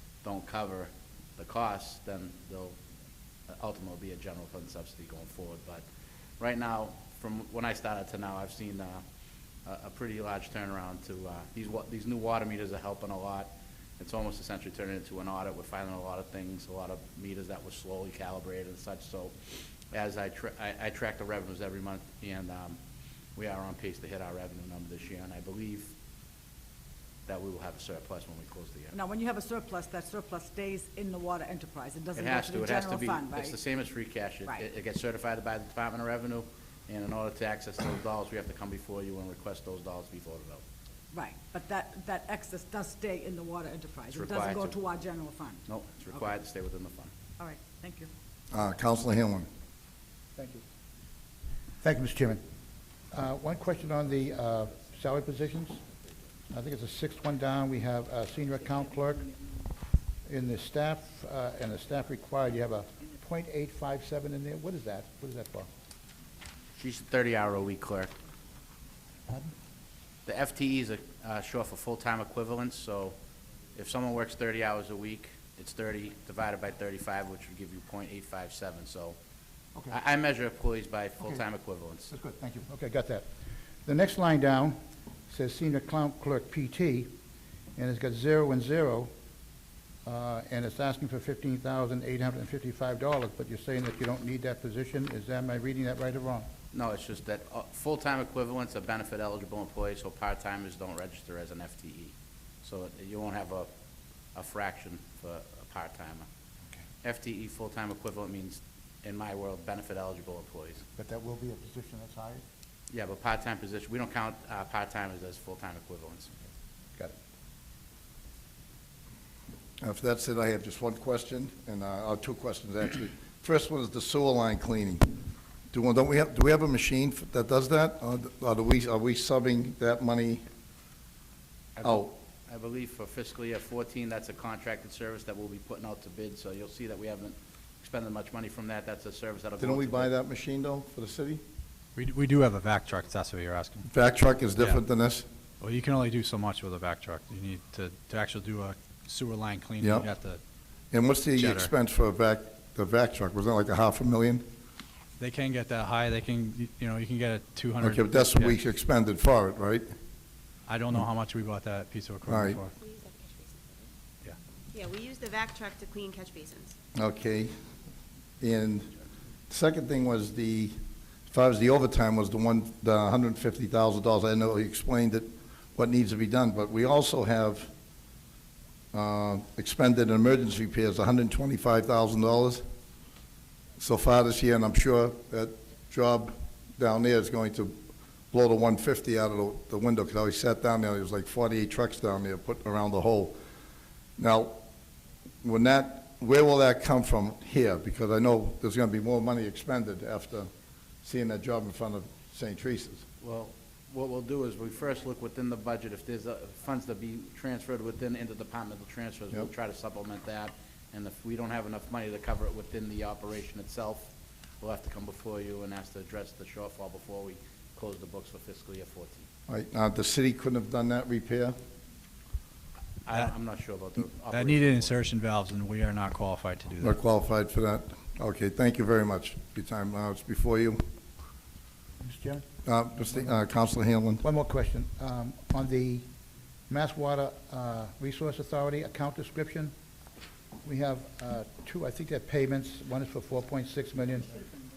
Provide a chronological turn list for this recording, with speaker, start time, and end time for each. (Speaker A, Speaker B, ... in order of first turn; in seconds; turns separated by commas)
Speaker A: 0.2-2.8, Speaker A: 3.5-5.8, Speaker A: 6.4-9.0, Speaker A: 9.7-19.4, Speaker A: 19.9-22.8, Speaker A: 23.4-25.9, Speaker A: 27.3-29.0, Speaker B: 28.9-33.6, Speaker A: 32.1-40.6, Speaker B: 41.1-45.6, Speaker A: 44.1-44.8, Speaker A: 45.7-47.1, Speaker B: 47.4-48.1, Speaker C: 48.5-49.5, Speaker D: 50.4-50.6, Speaker D: 51.8-52.4, Speaker D: 53.1-55.8, Speaker D: 56.5-59.3, Speaker D: 60.3-65.7, Speaker A: 66.8-68.1, Speaker A: 70.3-73.2, Speaker A: 73.8-79.2, Speaker A: 79.9-82.1, Speaker D: 82.1-83.3, Speaker D: 83.8-84.8, Speaker D: 85.3-87.1, Speaker D: 87.8-89.1, Speaker D: 90.0-96.5, Speaker A: 96.7-103.7, Speaker A: 104.3-106.3, Speaker A: 107.0-110.8, Speaker D: 111.0-112.4, Speaker A: 112.9-116.3, Speaker C: 119.8-125.2, Speaker C: 125.7-130.4, Speaker A: 131.8-140.1, Speaker C: 131.8-132.1, Speaker C: 139.6-141.4, Speaker E: 142.0-143.9, Speaker C: 143.9-145.3, Speaker E: 145.6-150.4, Speaker C: 149.8-150.1, Speaker C: 150.9-154.4, Speaker E: 151.4-151.7, Speaker E: 155.2-158.6, Speaker C: 157.8-159.9, Speaker E: 160.7-162.7, Speaker C: 162.3-162.6, Speaker F: 162.8-163.9, Speaker F: 164.7-166.8, Speaker C: 166.9-167.6, Speaker C: 168.4-168.9, Speaker C: 169.5-170.8, Speaker C: 171.3-177.7, Speaker C: 178.9-182.7, Speaker C: 183.8-187.8, Speaker C: 188.3-193.4, Speaker C: 194.2-194.6, Speaker C: 195.4-200.5, Speaker C: 201.0-203.1, Speaker A: 203.2-219.3, Speaker C: 219.5-221.6, Speaker A: 223.1-225.0, Speaker E: 224.3-227.0, Speaker C: 226.8-230.8, Speaker D: 232.0-232.5, Speaker C: 232.7-234.2, Speaker D: 234.2-236.1, Speaker D: 236.7-239.7, Speaker D: 240.6-244.3